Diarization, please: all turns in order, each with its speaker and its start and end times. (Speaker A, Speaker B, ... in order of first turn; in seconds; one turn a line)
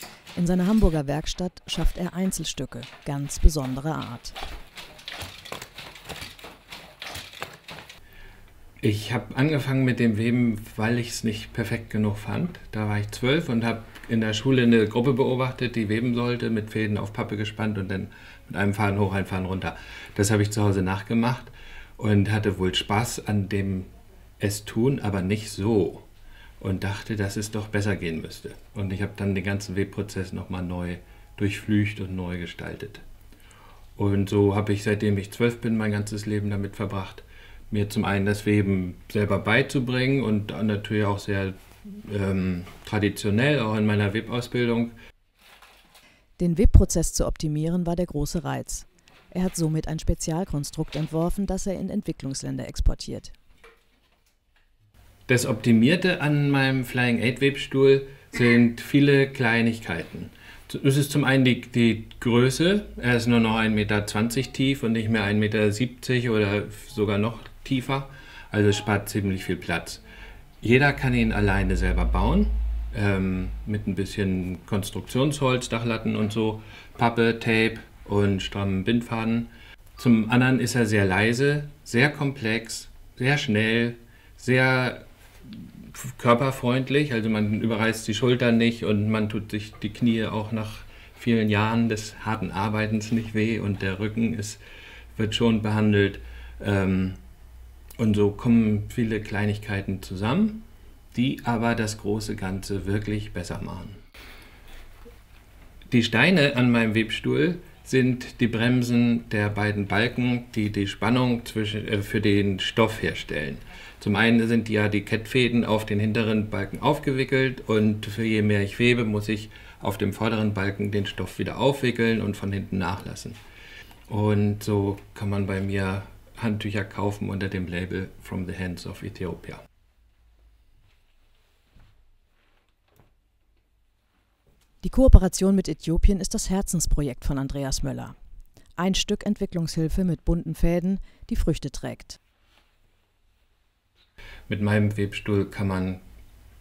Speaker A: 0.3-4.4
Speaker B: 8.8-26.1
Speaker B: 26.6-33.0
Speaker B: 34.0-44.9
Speaker A: 46.4-53.4
Speaker B: 55.3-70.0
Speaker B: 70.6-94.6
Speaker B: 95.2-97.2
Speaker B: 98.0-104.0
Speaker B: 105.9-123.4
Speaker B: 124.1-129.6
Speaker A: 134.8-138.2
Speaker A: 138.8-142.2
Speaker B: 144.5-146.0